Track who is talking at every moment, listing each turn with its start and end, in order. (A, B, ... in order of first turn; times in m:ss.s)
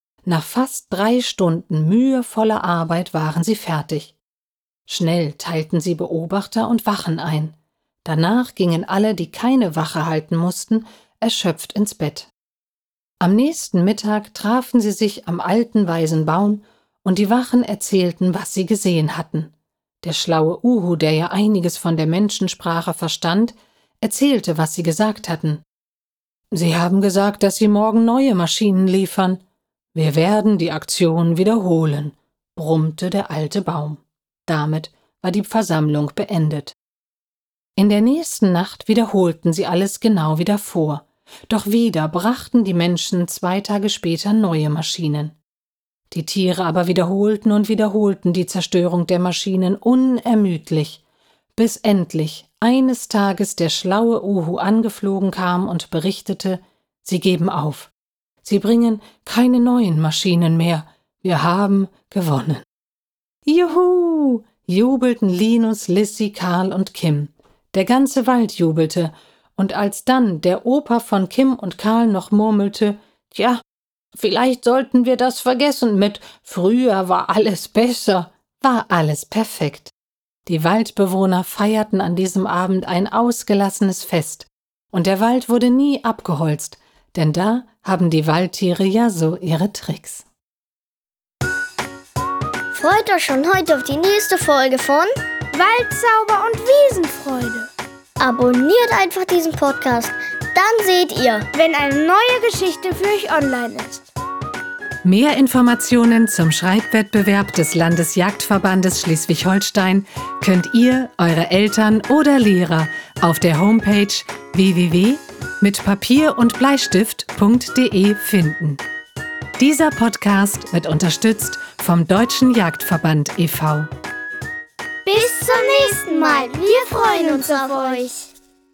0:00.2-0:04.2 A
0:04.9-0:12.3 A
0:13.2-0:25.6 A
0:26.5-0:29.4 A
0:29.9-0:36.8 A
0:37.8-0:45.4 A
0:46.1-0:51.0 A
0:51.6-0:57.9 A
0:58.4-1:02.7 A
1:03.5-1:13.6 A
1:14.1-1:19.9 A
1:20.5-1:30.3 A
1:32.7-1:35.1 B
1:35.5-1:37.7 C
1:38.2-1:41.5 B
1:41.5-1:44.1 C
1:45.0-1:58.8 A
1:59.6-2:03.9 A
2:05.1-2:08.1 C
2:05.1-2:08.3 B